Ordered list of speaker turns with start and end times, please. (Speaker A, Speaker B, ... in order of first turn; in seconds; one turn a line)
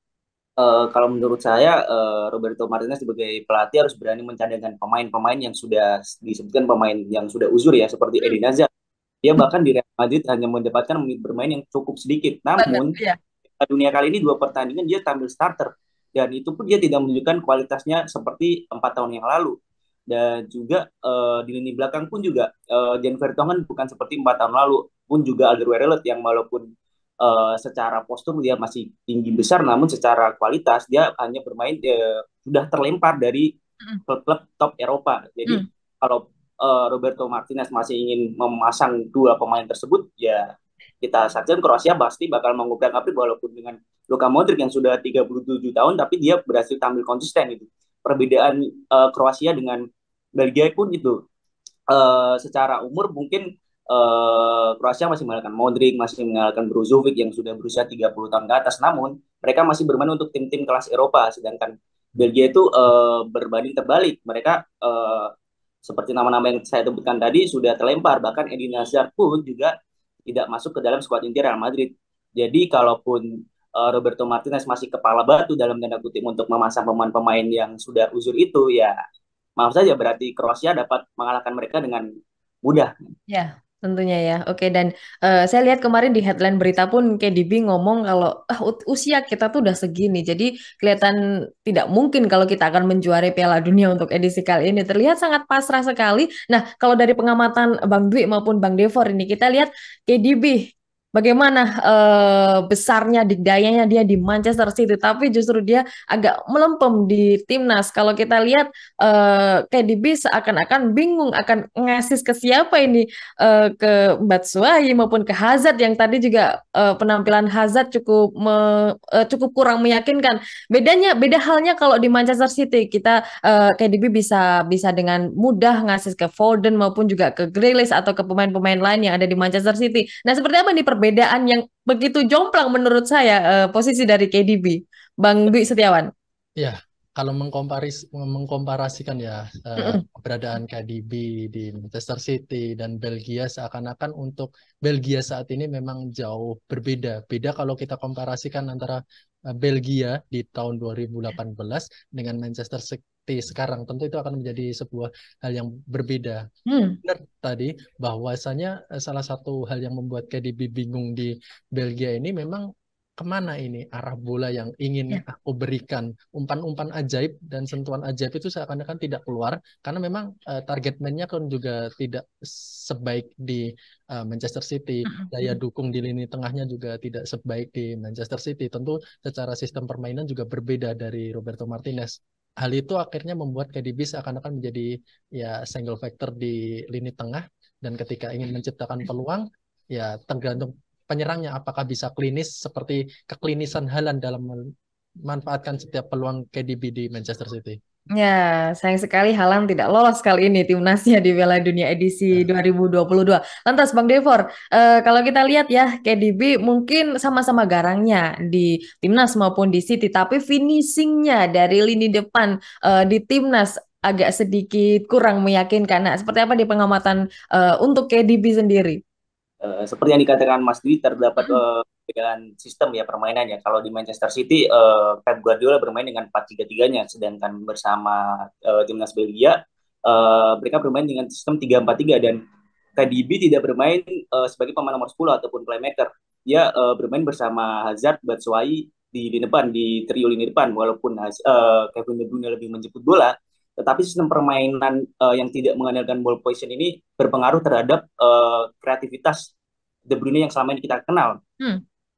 Speaker A: 0.6-8.7
Speaker A: 9.2-12.9
Speaker B: 12.6-13.2
Speaker A: 13.6-19.5
Speaker A: 20.1-26.6
Speaker A: 27.2-33.5
Speaker A: 34.1-40.4
Speaker A: 41.0-49.8
Speaker A: 50.4-51.1
Speaker A: 51.9-65.3
Speaker A: 65.8-69.7
Speaker A: 70.3-73.2
Speaker A: 73.8-78.9
Speaker A: 79.6-82.0
Speaker A: 82.6-82.9
Speaker B: 83.3-136.1
Speaker C: 136.6-149.0
Speaker C: 149.5-156.4
Speaker B: 156.7-157.0
Speaker C: 157.0-162.6
Speaker C: 163.2-194.6
Speaker B: 175.1-175.6
Speaker C: 195.2-197.8
Speaker B: 198.2-219.0
Speaker A: 219.6-229.6
Speaker A: 230.1-232.4
Speaker A: 233.0-249.5
Speaker A: 250.1-251.4